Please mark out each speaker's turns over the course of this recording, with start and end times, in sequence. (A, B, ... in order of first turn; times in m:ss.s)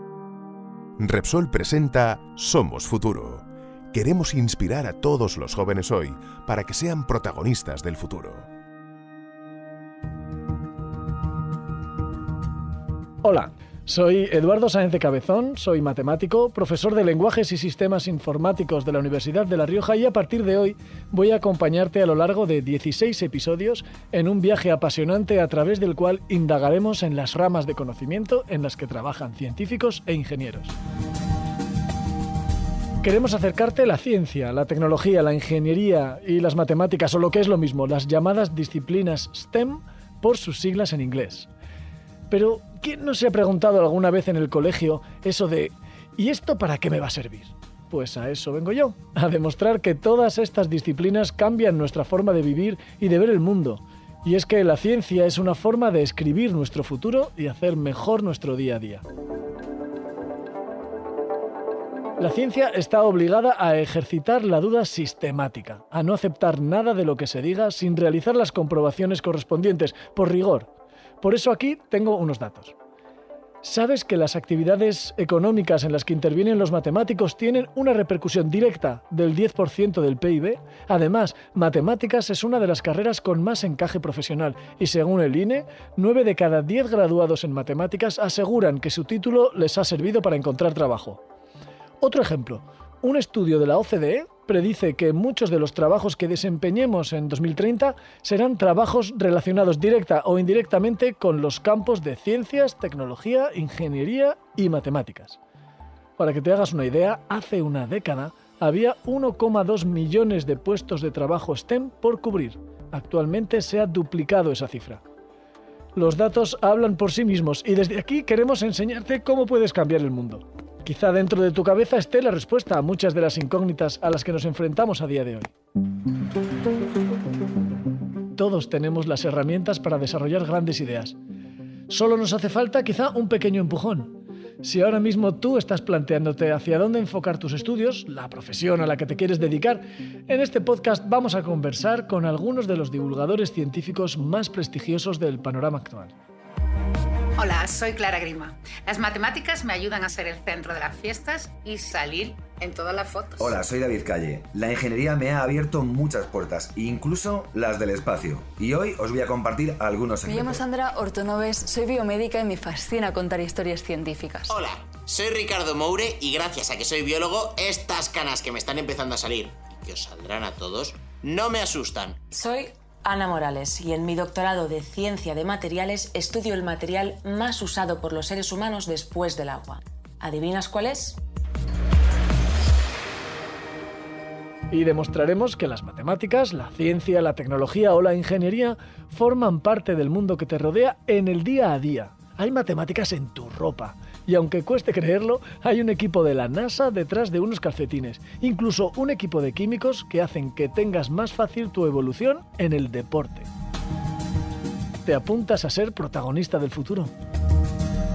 0:01.0-0:08.5 A
0:13.2-0:30.8 B
0:33.0-0:41.5 B
0:42.3-0:59.0 B
1:02.2-1:12.8 B
1:13.6-1:31.2 B
1:32.0-1:45.4 B
1:46.2-1:55.0 B
1:56.0-2:05.5 B
2:08.3-2:11.2 B
2:11.9-2:26.2 B
2:27.4-2:33.5 C
2:33.4-2:40.6 D
2:40.2-2:44.6 E
2:44.5-2:52.2 F
2:52.3-3:01.2 G
3:04.7-3:23.5 B
3:25.0-3:27.1 B